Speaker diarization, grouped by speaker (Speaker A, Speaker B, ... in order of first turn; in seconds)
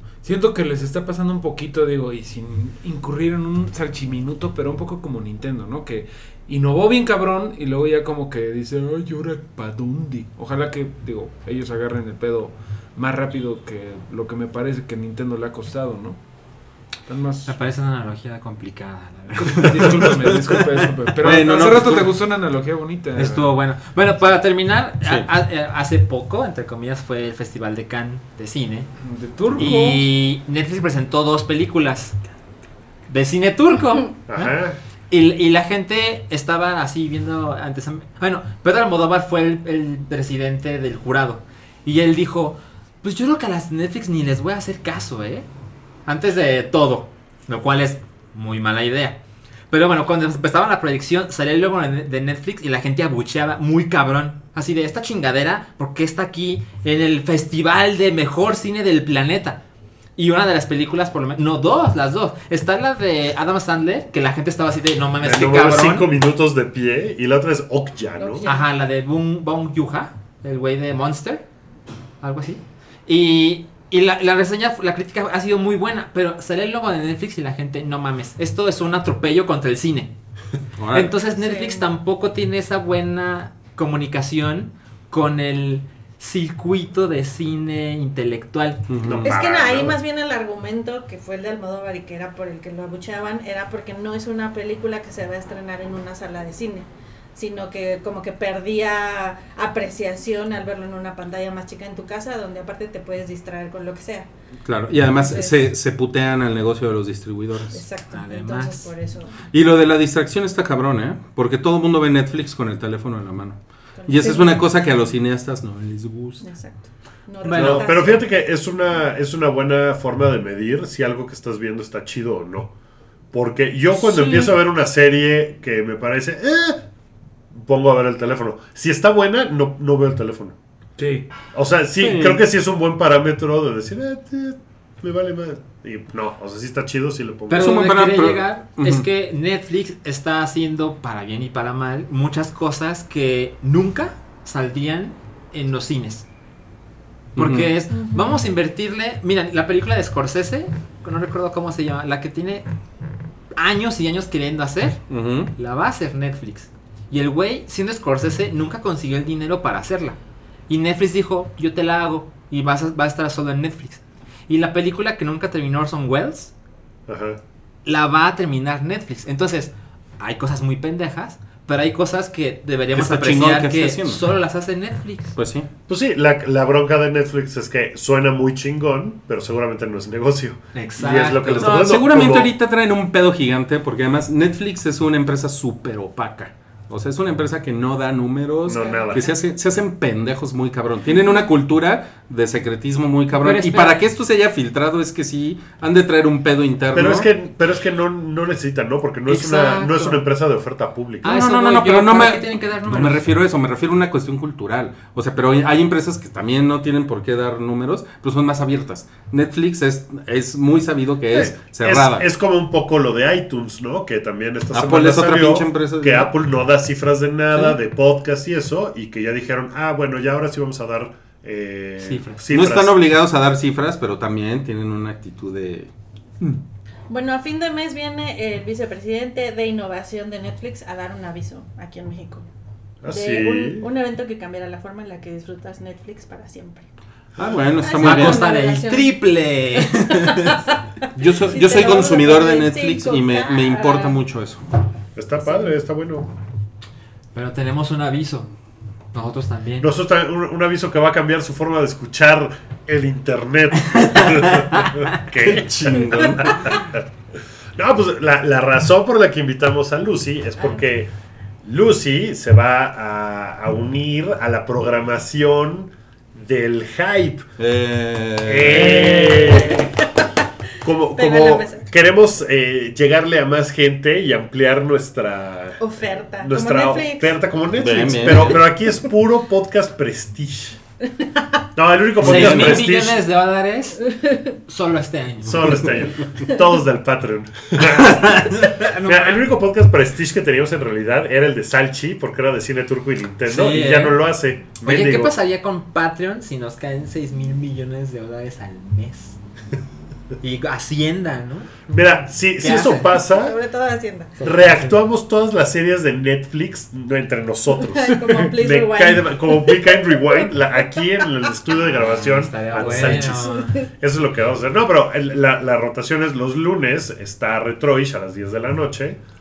Speaker A: 0.2-16.2, 17.1-17.5, 19.4-23.5, 29.0-29.9, 131.0-131.2, 308.1-308.5
Speaker B: 17.5-20.1, 23.1-28.9, 29.6-32.2, 33.1-34.5, 35.1-45.5, 46.0-49.2, 49.7-59.6, 60.1-66.1, 68.4-71.4, 72.2-80.1, 80.9-88.9, 108.1-108.9, 117.4-117.9, 137.5-146.2, 147.3-152.7, 153.6-155.0, 155.5-160.2, 160.7-166.5, 167.8-175.3, 180.7-181.9, 193.3-194.0, 199.3-200.2, 201.2-203.2, 222.0-222.4, 238.0-240.6, 247.3-248.5, 249.1-249.9, 282.2-284.1, 284.6-285.9, 288.6-289.4, 293.4-294.2, 294.8-299.4, 300.4-301.7, 302.6-303.1, 304.4-304.9, 311.9-313.7
Speaker C: 19.8-22.1, 25.0-25.3, 29.5-29.8, 80.8-81.1, 88.9-89.4, 104.6-107.8, 109.5-116.4, 132.0-132.4, 137.5-139.1, 147.3-147.7, 155.1-155.5, 172.9-174.2, 175.3-175.7, 181.5-197.3, 201.2-212.3, 214.7-216.3, 222.5-225.9, 237.4-238.5, 241.2-244.6, 255.4-256.7, 267.6-269.6, 277.7-278.8, 282.2-282.9
Speaker D: 34.3-34.8, 65.2-68.5, 89.0-90.0, 117.5-122.7, 123.3-126.8, 127.5-130.6, 131.5-137.7, 167.1-167.4, 175.9-182.5, 188.7-189.3, 196.9-201.3, 211.3-223.0, 233.0-233.9, 245.2-246.3, 249.8-257.0, 257.8-261.1, 261.6-267.5, 268.4-269.9, 270.8-275.8, 276.4-280.8, 281.7-283.2, 285.4-295.3, 301.9-303.6, 304.4-319.2
Speaker E: 68.2-68.7, 81.3-81.8, 89.2-104.3, 105.0-105.7, 107.7-109.3, 114.0-114.9, 116.4-118.2, 124.0-124.5, 147.9-148.4, 181.6-181.9, 227.1-232.5, 233.1-236.8, 237.8-239.1, 240.0-240.7, 241.3-244.2, 245.4-245.7, 268.9-270.3, 271.1-271.9, 275.8-277.4, 281.1-281.4, 303.1-304.4, 307.8-311.2, 312.8-313.9